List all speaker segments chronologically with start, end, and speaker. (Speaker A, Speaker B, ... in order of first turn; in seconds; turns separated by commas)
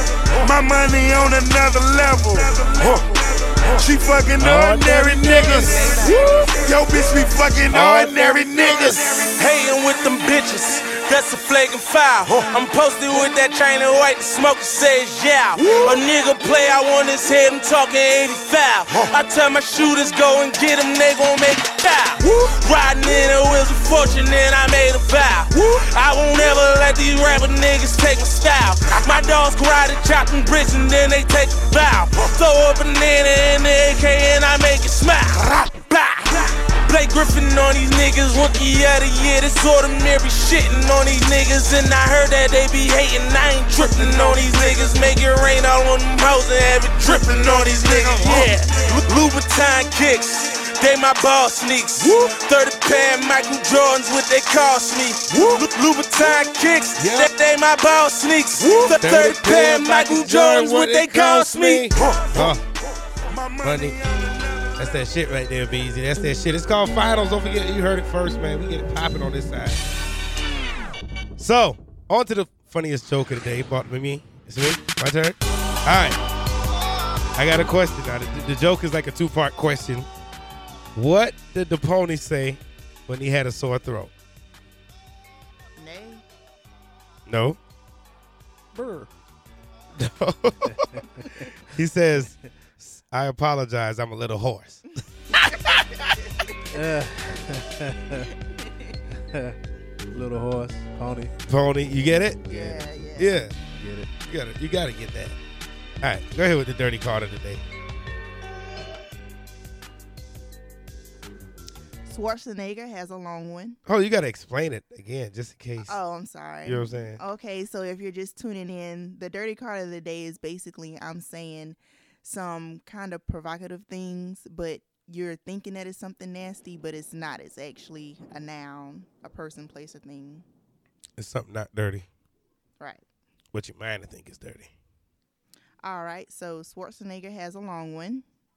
Speaker A: 0.4-9.3, Speaker B: 4.4-6.1, Speaker B: 7.7-9.3, Speaker C: 9.3-62.0, Speaker A: 43.9-44.8, Speaker A: 47.2-48.5, Speaker B: 59.0-62.6, Speaker A: 62.0-62.6, Speaker A: 63.3-64.7, Speaker B: 63.6-64.0, Speaker B: 64.8-69.8, Speaker B: 71.4-76.2, Speaker B: 77.3-80.1, Speaker B: 81.0-84.1, Speaker D: 85.8-86.2, Speaker B: 87.3-87.6, Speaker E: 88.7-89.1, Speaker B: 90.0-91.0, Speaker E: 90.7-91.5, Speaker B: 91.7-94.8, Speaker E: 96.7-98.3, Speaker E: 99.2-99.5, Speaker E: 100.1-101.3, Speaker B: 101.5-102.6, Speaker D: 102.5-103.4, Speaker E: 102.5-102.8, Speaker B: 103.2-103.5, Speaker E: 103.6-104.1, Speaker B: 104.2-105.4, Speaker B: 106.0-107.6, Speaker D: 112.1-113.8, Speaker B: 113.8-116.0, Speaker D: 115.8-130.4, Speaker B: 116.6-117.2, Speaker B: 131.2-132.1, Speaker B: 133.5-134.7, Speaker D: 135.8-138.2